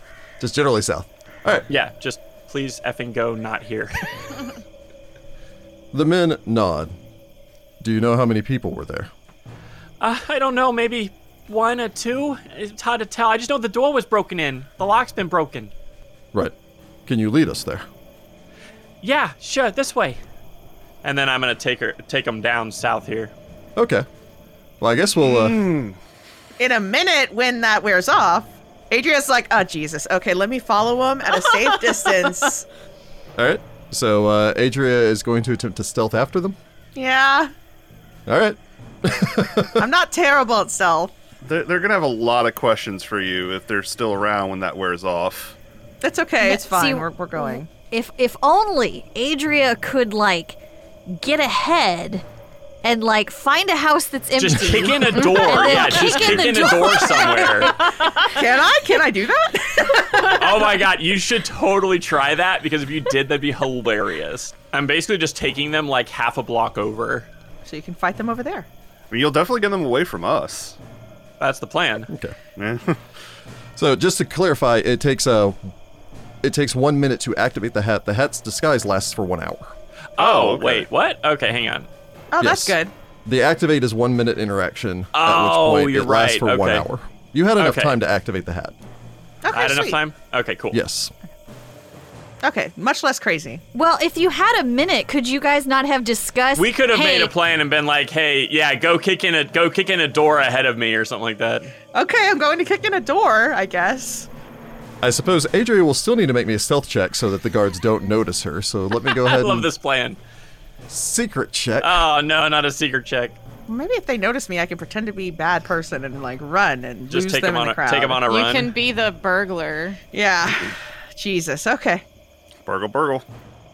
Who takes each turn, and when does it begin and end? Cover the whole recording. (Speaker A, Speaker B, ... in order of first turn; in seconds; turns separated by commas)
Speaker A: 0.4-1.7, Speaker B: 1.7-4.5, Speaker A: 5.9-6.9, Speaker A: 7.8-9.1, Speaker B: 10.0-15.7, Speaker A: 16.3-17.9, Speaker B: 19.0-20.2, Speaker B: 21.0-23.3, Speaker A: 23.8-24.1, Speaker A: 24.8-25.7, Speaker C: 25.2-26.0, Speaker D: 26.6-32.6, Speaker A: 33.4-36.6, Speaker D: 36.9-37.5, Speaker A: 38.3-39.8, Speaker D: 39.8-41.1, Speaker C: 41.4-45.6, Speaker D: 46.0-47.7, Speaker E: 46.4-52.2, Speaker E: 52.8-57.8, Speaker B: 54.4-57.8, Speaker F: 55.3-56.0, Speaker F: 57.8-58.2, Speaker D: 58.2-60.7, Speaker B: 60.3-67.2, Speaker D: 67.6-68.7, Speaker C: 69.1-70.8, Speaker B: 71.4-72.1, Speaker A: 72.1-72.3, Speaker C: 72.6-73.0, Speaker A: 73.8-75.7, Speaker A: 76.4-79.7, Speaker B: 80.2-81.9, Speaker C: 80.2-80.8, Speaker D: 82.3-82.9, Speaker A: 82.4-88.7, Speaker B: 85.1-86.8, Speaker B: 87.6-88.0, Speaker D: 89.4-90.0, Speaker B: 89.5-90.8, Speaker A: 90.7-91.1, Speaker D: 92.4-93.6, Speaker E: 93.7-97.3, Speaker B: 96.5-101.7, Speaker D: 101.9-104.3, Speaker A: 105.0-109.7, Speaker B: 109.1-110.2, Speaker A: 110.9-112.0, Speaker B: 111.8-113.4, Speaker D: 113.7-118.2, Speaker B: 117.1-118.7, Speaker F: 118.2-120.0, Speaker D: 120.1-122.0, Speaker C: 122.6-123.2